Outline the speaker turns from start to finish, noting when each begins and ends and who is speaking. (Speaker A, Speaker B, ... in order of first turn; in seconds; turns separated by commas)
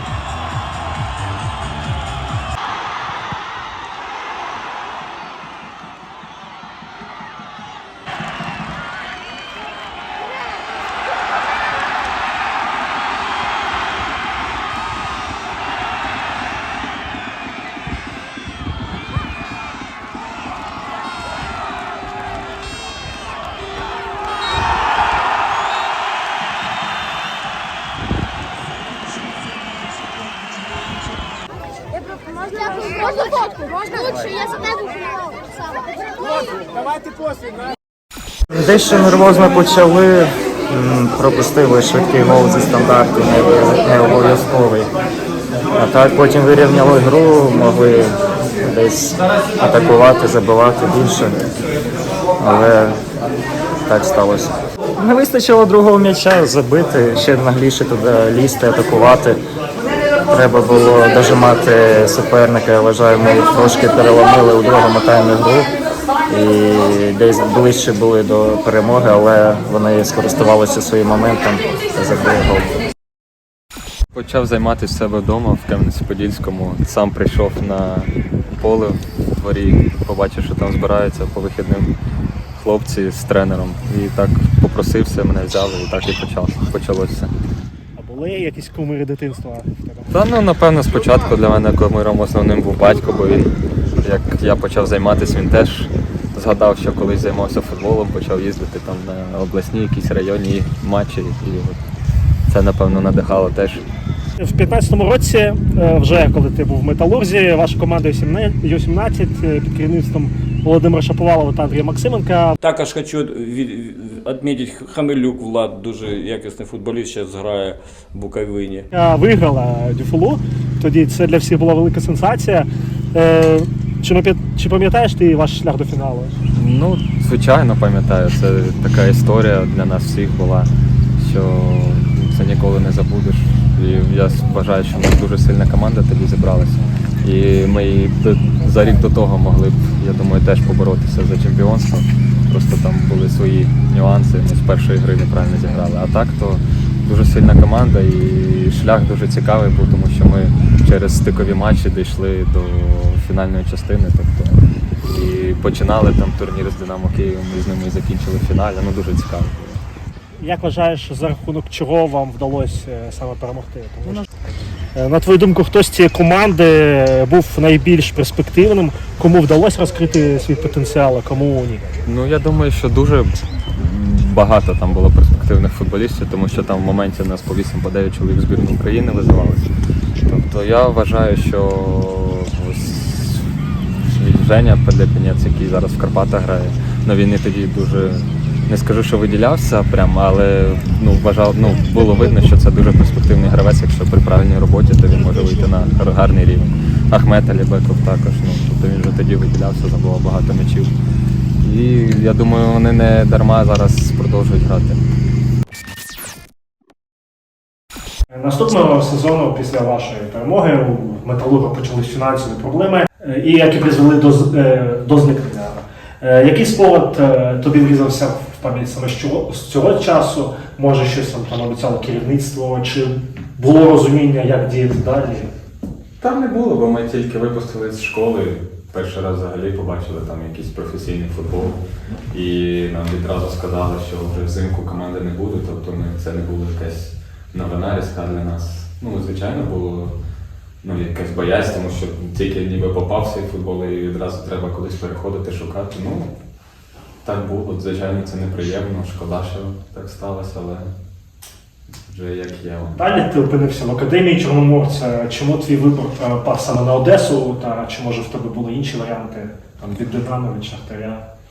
Speaker A: 38.5-44.9, Speaker A: 45.8-51.4, Speaker A: 52.4-53.0, Speaker A: 53.9-59.4, Speaker A: 60.3-65.7, Speaker A: 66.3-72.8, Speaker B: 74.1-81.9, Speaker B: 82.6-87.3, Speaker C: 88.0-90.2, Speaker B: 90.1-101.8, Speaker B: 102.5-103.8, Speaker C: 104.4-112.6, Speaker D: 112.6-118.9, Speaker C: 118.9-126.4, Speaker B: 126.5-159.8, Speaker C: 160.4-164.3, Speaker C: 164.9-171.8, Speaker B: 172.1-179.7, Speaker B: 180.2-200.9, Speaker B: 201.6-205.0, Speaker C: 208.3-225.5, Speaker B: 226.2-231.8, Speaker B: 232.3-240.1, Speaker B: 240.8-246.3, Speaker B: 247.2-250.9, Speaker B: 252.1-253.2, Speaker C: 253.0-261.3